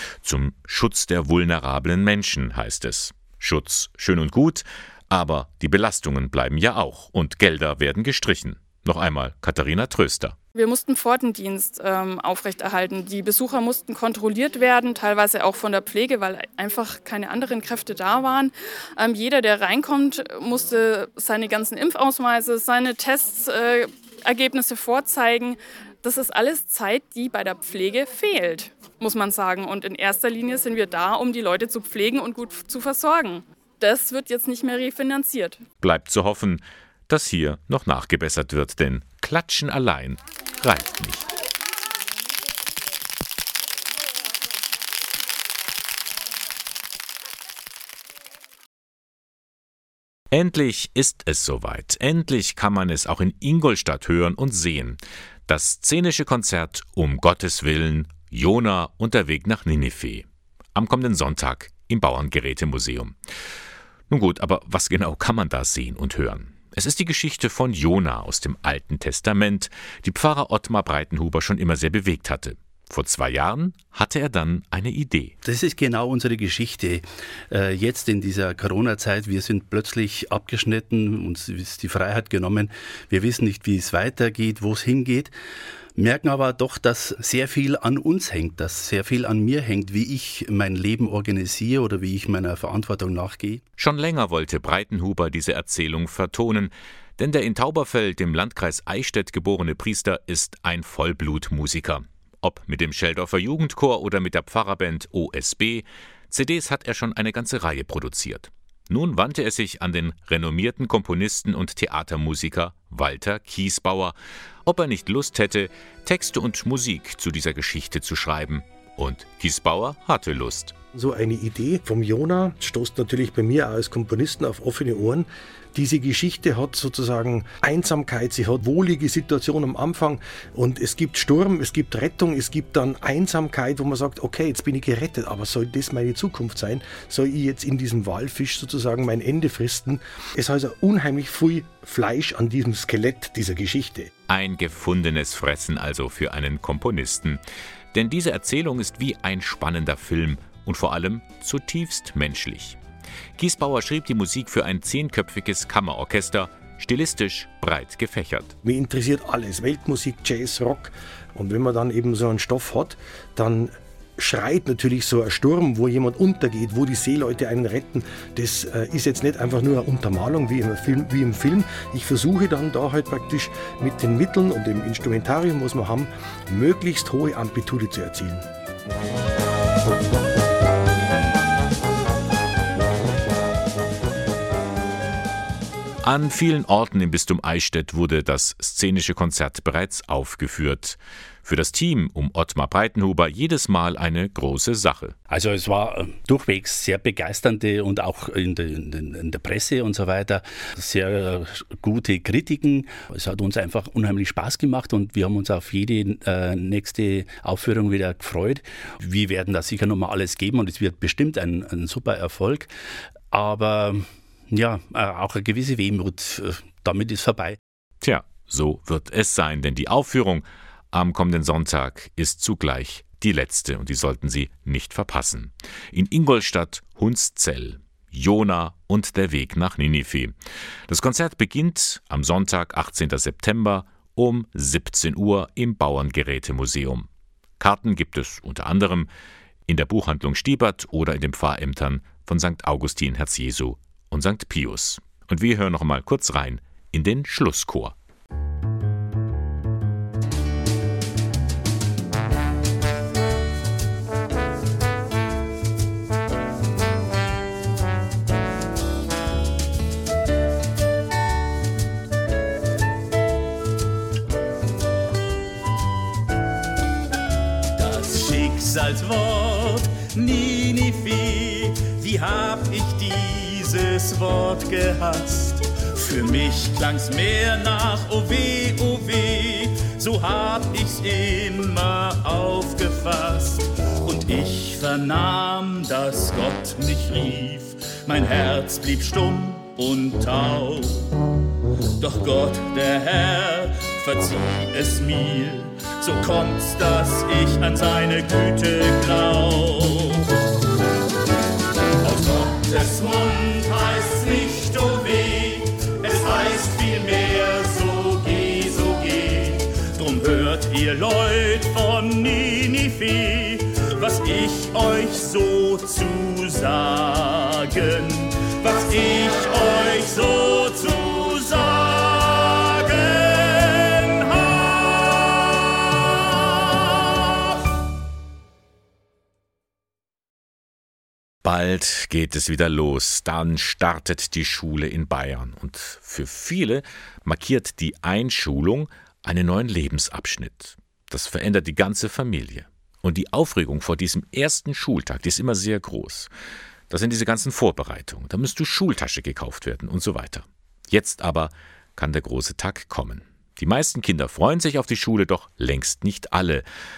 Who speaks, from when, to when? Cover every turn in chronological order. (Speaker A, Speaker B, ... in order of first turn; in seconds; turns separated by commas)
Speaker A: 0.2-10.3, Speaker B: 10.5-35.6, Speaker A: 35.8-41.2, Speaker A: 50.3-63.1, Speaker A: 64.1-75.3, Speaker C: 75.4-85.3, Speaker C: 86.0-93.6, Speaker A: 93.8-120.7, Speaker D: 120.9-144.1, Speaker A: 144.3-147.4, Speaker A: 147.9-152.8, Speaker A: 153.4-158.5, Speaker D: 158.6-178.4, Speaker A: 186.0-195.1, Speaker C: 195.3-212.7, Speaker C: 213.3-217.6, Speaker A: 218.0-230.3, Speaker A: 230.9-237.1, Speaker A: 237.6-239.1, Speaker A: 239.7-247.9, Speaker E: 267.8-291.1, Speaker E: 292.0-300.2, Speaker E: 302.0-326.8, Speaker A: 331.4-346.3, Speaker A: 346.9-356.6